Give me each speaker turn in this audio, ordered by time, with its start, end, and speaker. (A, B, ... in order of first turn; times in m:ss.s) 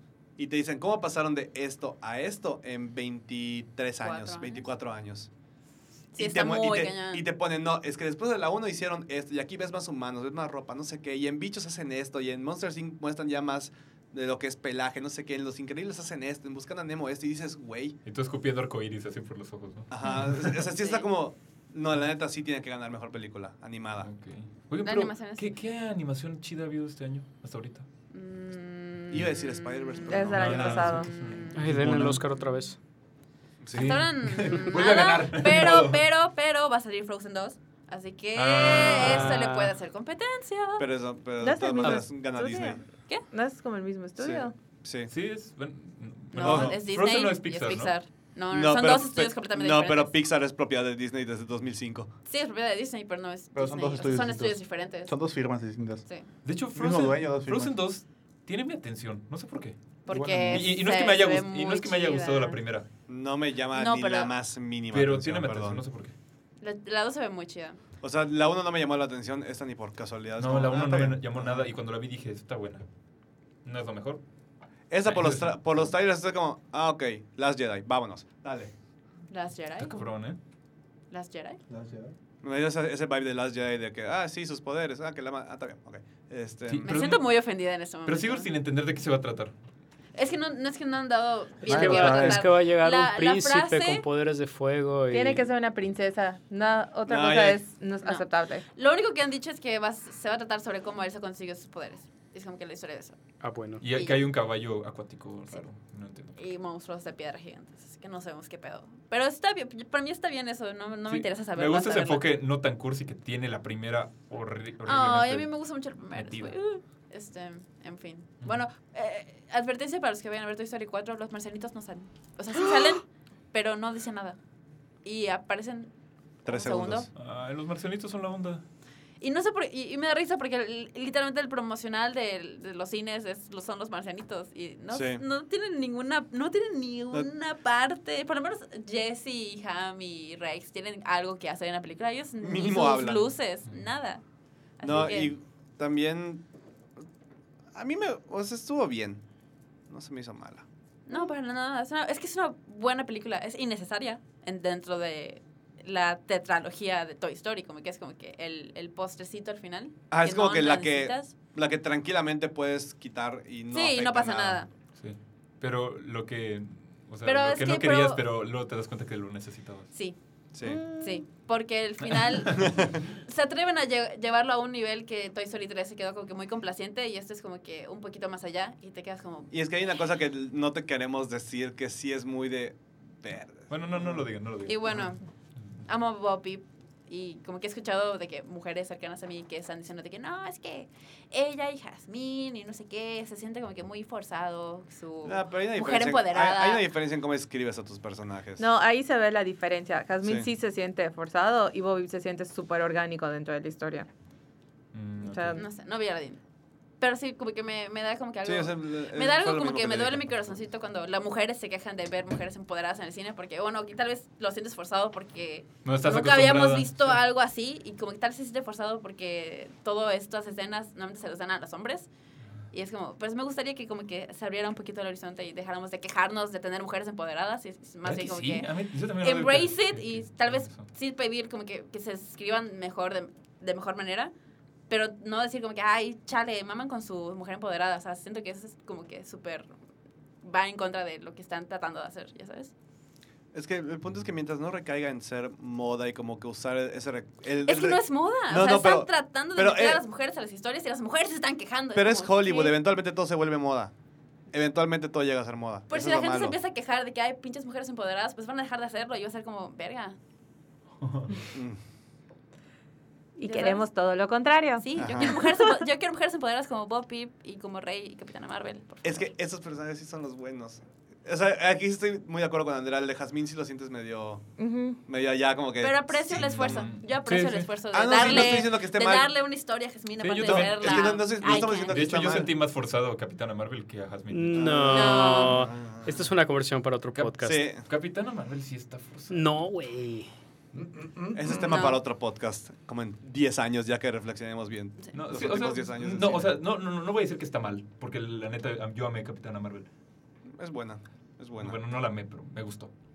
0:00.4-0:05.3 A
0:04.0-0:04.6 B
0:06.2-0:07.2 B
0:06.2-0:18.0 A
0:18.0-0:20.6 C
0:19.9-0:24.1 A
0:20.7-0:21.1 B
0:24.0-0:27.9 C
0:24.8-0:25.5 B
0:28.1-0:30.3 B
0:29.1-0:30.9 A
0:30.1-0:31.1 D
0:30.3-0:32.3 C
0:31.0-0:31.7 B
0:31.5-0:32.8 E
0:33.6-0:34.0 A
0:33.7-0:36.0 C
0:33.7-0:40.8 B
0:38.4-0:39.7 C
0:40.8-0:42.8 A
0:41.4-0:44.5 D
0:44.2-0:45.1 A
0:45.1-0:48.0 C
0:46.3-0:50.1 B
0:46.4-0:46.8 A
0:48.5-0:52.1 A
0:52.3-0:55.2 B
0:53.5-0:56.0 F
0:56.4-0:59.8 C
0:56.7-0:57.8 F
1:00.1-1:02.6 B
1:00.1-1:00.7 F
1:00.5-1:02.9 C
1:03.1-1:05.8 A
1:03.7-1:04.3 B
1:04.9-1:06.1 C
1:06.6-1:07.8 B
1:08.0-1:11.7 A
1:10.4-1:12.8 C
1:13.6-1:14.2 C
1:14.9-1:18.7 A
1:15.0-1:15.6 C
1:19.3-1:20.0 B
1:19.8-1:20.4 C
1:21.1-1:21.6 B
1:21.7-1:22.1 F
1:22.4-1:26.9 A
1:26.7-1:29.5 C
1:26.8-1:28.5 B
1:30.2-1:34.0 B
1:31.7-1:32.5 F
1:31.7-1:35.5 E
1:35.1-1:38.6 D
1:37.1-1:37.6 A
1:38.0-1:43.2 B
1:43.4-1:43.8 E
1:43.8-1:46.4 C
1:43.9-1:44.2 B
1:46.4-1:52.2 B
1:51.1-1:56.6 C
1:54.8-2:04.4 B
2:05.0-2:05.9 B
2:06.4-2:07.1 A
2:06.4-2:07.1 B
2:07.2-2:08.6 C
2:09.2-2:24.2 B
2:14.9-2:15.2 A
2:22.4-2:23.3 A
2:24.8-2:25.4 B
2:24.8-2:26.4 A
2:27.7-2:29.2 A
2:29.9-2:30.7 A
2:31.1-2:41.3 B
2:40.1-2:44.6 A
2:43.7-2:44.7 B
2:45.0-2:49.9 C
2:47.2-2:48.2 B
2:49.9-2:50.2 B
2:50.5-2:50.8 A
2:50.7-2:51.2 D
2:51.0-2:59.5 B
2:52.7-2:53.0 A
2:59.5-3:04.2 A
3:03.7-3:05.1 C
3:04.6-3:05.2 B
3:05.9-3:16.8 B
3:15.2-3:18.7 A
3:18.6-3:24.1 D
3:24.9-3:25.6 C
3:25.2-3:25.6 D
3:25.6-3:26.4 B
3:27.0-3:42.1 B
3:28.4-3:30.6 A
3:35.8-3:37.2 C
3:42.7-3:54.3 B
3:48.0-3:50.9 C
3:54.9-3:59.7 B
4:00.4-4:02.7 B
4:03.5-4:10.0 A
4:07.7-4:12.7 B
4:11.9-4:13.9 A
4:14.5-4:16.6 A
4:15.9-4:20.2 B
4:21.0-4:21.3 C
4:21.5-4:21.8 A
4:23.4-4:25.5 D
4:23.4-4:23.8 B
4:24.8-4:29.3 B
4:25.0-4:25.3 A
4:29.0-4:36.4 A
4:34.6-4:35.0 D
4:35.8-4:42.4 B
4:36.3-4:38.7 C
4:37.9-4:39.3 A
4:40.2-4:44.9 C
4:40.4-4:42.5 A
4:44.3-4:47.6 E
4:44.6-4:46.2 A
4:44.9-4:45.7 B
4:47.1-4:49.6 C
4:47.4-4:47.8 A
4:49.3-4:50.3 E
4:50.8-4:51.6 F
4:51.3-4:56.6 A
4:51.7-4:52.0 B
4:55.1-4:59.9 C
5:00.5-5:01.8 A
5:01.6-5:02.9 C